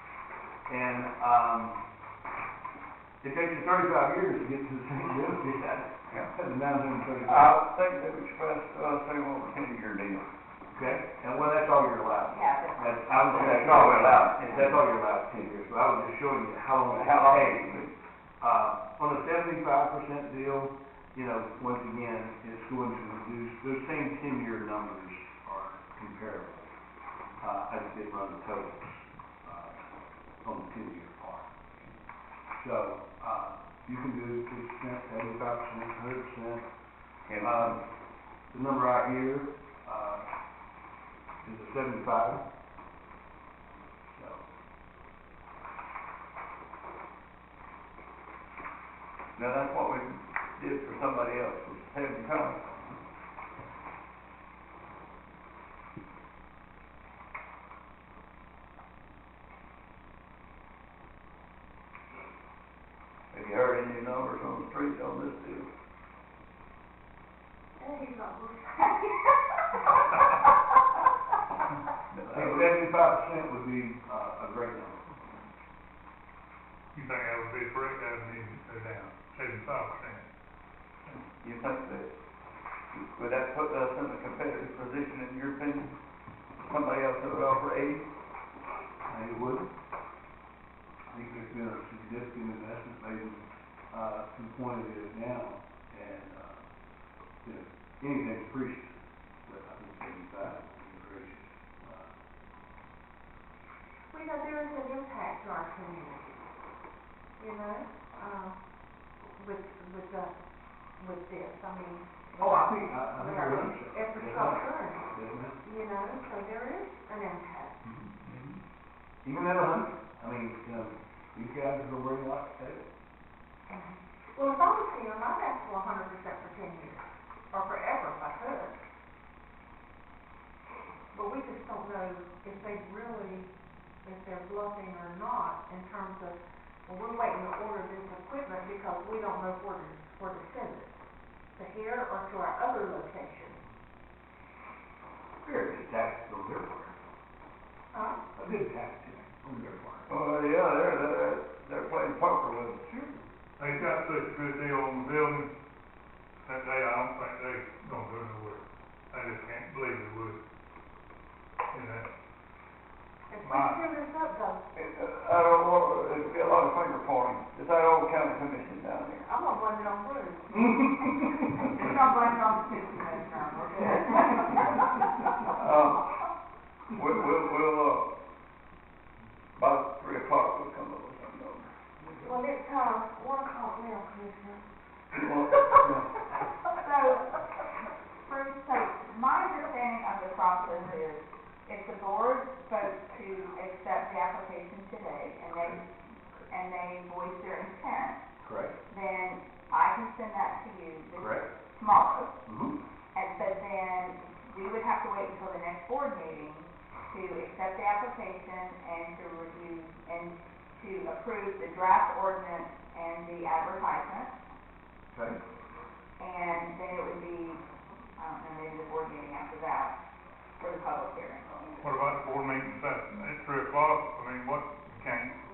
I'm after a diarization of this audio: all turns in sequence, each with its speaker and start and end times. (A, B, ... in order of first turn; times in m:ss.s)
0:00.7-0:01.8 A
0:03.2-0:07.6 A
0:07.2-0:10.3 B
0:10.7-0:17.7 A
0:12.2-0:13.6 C
0:13.3-0:14.8 B
0:16.9-0:18.0 B
0:18.4-0:26.7 A
0:27.4-0:29.8 A
0:30.4-0:31.7 A
0:32.6-0:36.6 A
0:37.3-0:37.8 B
0:37.4-0:37.8 A
0:38.5-0:40.3 A
0:41.4-0:42.4 A
0:44.1-0:44.4 A
0:49.4-0:52.6 B
1:03.3-1:05.7 B
1:07.8-1:09.1 D
1:12.1-1:12.7 B
1:12.3-1:15.0 A
1:16.9-1:20.3 E
1:21.4-1:22.1 B
1:22.9-1:26.0 B
1:26.6-1:28.1 B
1:29.1-1:29.7 A
1:31.1-1:36.6 A
1:37.4-1:38.9 A
1:39.5-1:42.1 A
1:44.1-1:46.5 D
1:47.4-1:48.6 D
1:49.3-1:50.3 D
1:51.0-1:57.8 D
1:52.4-1:55.6 A
1:57.8-1:58.1 A
1:58.2-1:58.5 B
1:59.2-2:02.8 A
2:03.7-2:08.8 D
2:11.1-2:13.5 D
2:14.0-2:21.0 D
2:21.6-2:23.6 D
2:25.4-2:27.0 A
2:27.9-2:28.2 D
2:28.3-2:30.1 A
2:30.1-2:33.3 B
2:33.6-2:35.5 E
2:36.4-2:40.4 E
2:41.7-2:42.1 E
2:43.3-2:44.6 D
2:43.4-2:43.8 E
2:44.8-2:49.3 B
2:49.3-2:50.7 D
2:50.6-2:51.9 A
2:51.0-2:54.9 C
2:55.6-2:56.2 B
2:56.9-2:58.1 B
2:59.6-3:01.7 B
3:02.2-3:04.7 D
3:05.1-3:06.1 B
3:06.8-3:07.4 C
3:08.3-3:15.9 C
3:16.5-3:18.2 C
3:18.4-3:18.8 A
3:18.9-3:22.4 C
3:21.2-3:21.5 A
3:22.5-3:22.8 A
3:23.1-3:34.3 C
3:35.1-3:35.4 A
3:36.2-3:37.6 C
3:38.2-3:40.0 C
3:40.6-3:41.9 C
3:41.8-3:45.4 E